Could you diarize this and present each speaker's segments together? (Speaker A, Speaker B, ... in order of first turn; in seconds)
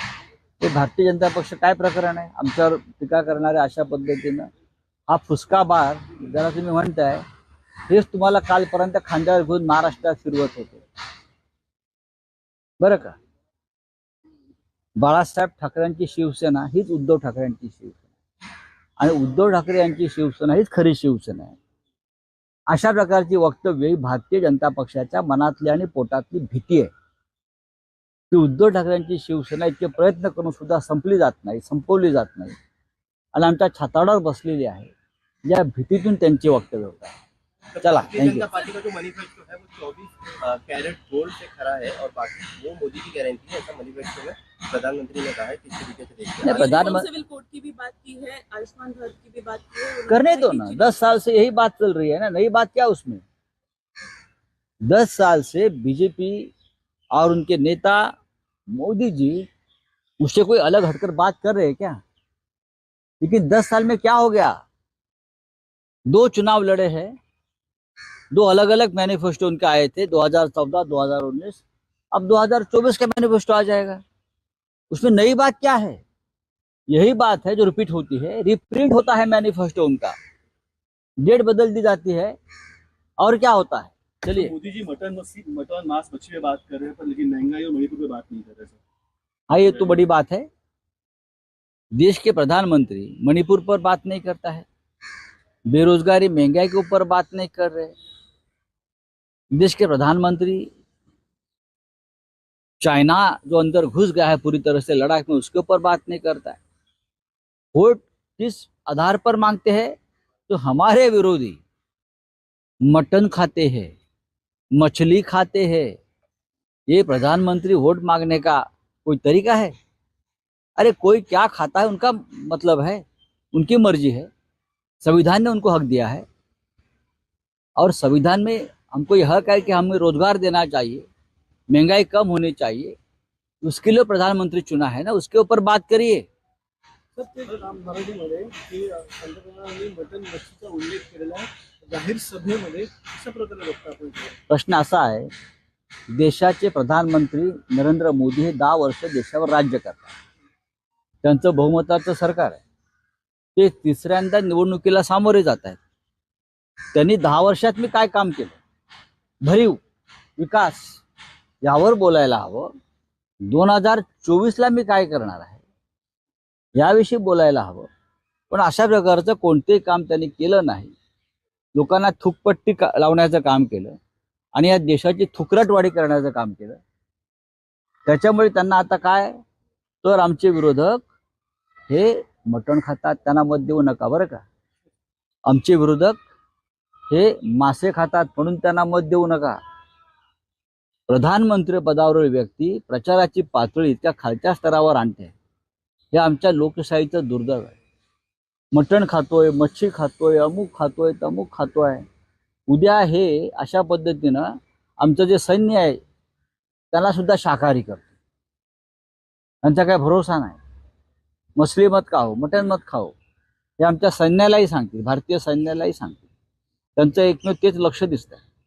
Speaker A: 0.6-4.5, 5.1-7.2, 7.9-10.8, 12.8-13.2, 15.0-18.1, 19.0-21.6, 22.7-26.9, 28.3-32.5, 33.3-34.9, 35.5-37.1, 37.8-38.5, 46.4-47.1, 50.1-53.2, 54.9-56.5, 57.1-58.1, 58.7-59.5, 60.2-62.0, 63.2-64.6, 66.1-67.1, 68.3-74.0, 74.9-76.0, 76.9-80.1, 81.2-82.3, 83.2-84.5, 89.5-90.5, 91.9-94.7, 95.7-97.9, 99.5-100.7, 102.8-106.6, 107.7-109.9, 110.5-111.6, 112.8-113.9, 114.7-115.9, 116.9-119.7, 120.8-124.3, 125.0-126.2, 127.8-131.1, 131.7-132.9, 133.6-136.2, 144.5-145.3, 146.1-150.1, 151.2-152.6, 153.6-155.8, 156.9-158.6, 159.4-159.8, 160.4-161.0, 161.6-162.7, 163.4-165.6, 166.8-167.9, 168.5-170.9, 171.7-174.0, 174.5-176.8, 178.1-179.3, 180.0-181.1, 181.9-184.4, 185.4-186.2, 187.1-189.6, 191.1-195.3, 196.1-197.8, 198.7-202.0, 202.7-206.0, 206.9-208.1, 209.6-210.6, 211.6-213.1, 213.8-216.2, 217.0-218.4
Speaker B: 37.7-46.8
Speaker C: 46.5-51.1
Speaker D: 84.3-88.8
Speaker E: 137.1-144.3